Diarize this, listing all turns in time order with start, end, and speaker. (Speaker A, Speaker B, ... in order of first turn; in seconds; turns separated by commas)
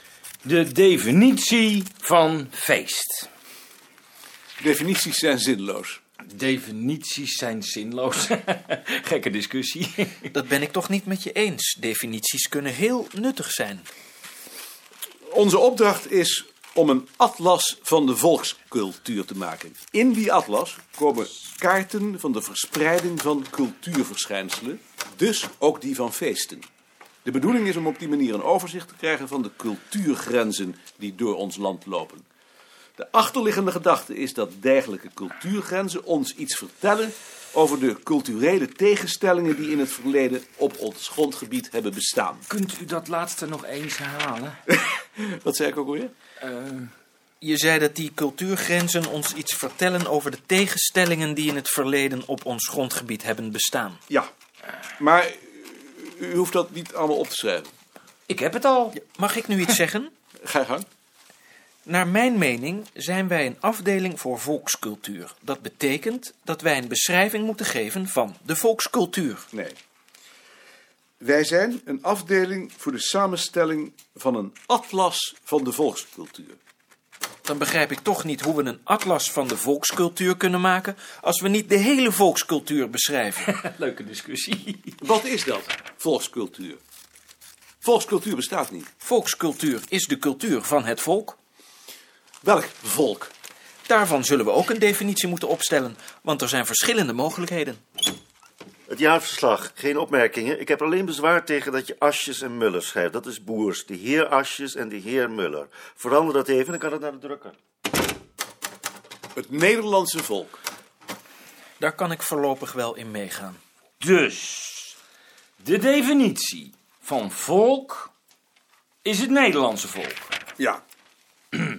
Speaker A: 0.4-3.3, Speaker B: 4.6-6.0, Speaker A: 6.3-10.2, Speaker C: 10.3-13.9, Speaker B: 15.3-26.7, Speaker B: 27.2-32.2, Speaker B: 33.0-42.5, Speaker A: 42.5-44.6, Speaker B: 44.7-46.1, Speaker A: 46.4-46.9, Speaker C: 47.4-54.0, Speaker B: 55.0-57.7, Speaker A: 58.3-59.0, Speaker C: 59.0-60.1, Speaker B: 60.4-60.9, Speaker C: 61.8-69.5, Speaker B: 69.5-69.8, Speaker B: 71.2-76.6, Speaker C: 77.4-83.5, Speaker A: 83.5-84.9, Speaker B: 85.0-86.8, Speaker B: 87.8-88.9, Speaker C: 89.0-91.4, Speaker B: 92.4-93.3, Speaker C: 93.9-97.8, Speaker D: 98.9-107.6, Speaker B: 109.3-110.6, Speaker C: 111.8-113.6, Speaker A: 114.0-114.9, Speaker A: 115.6-118.1, Speaker A: 119.0-120.2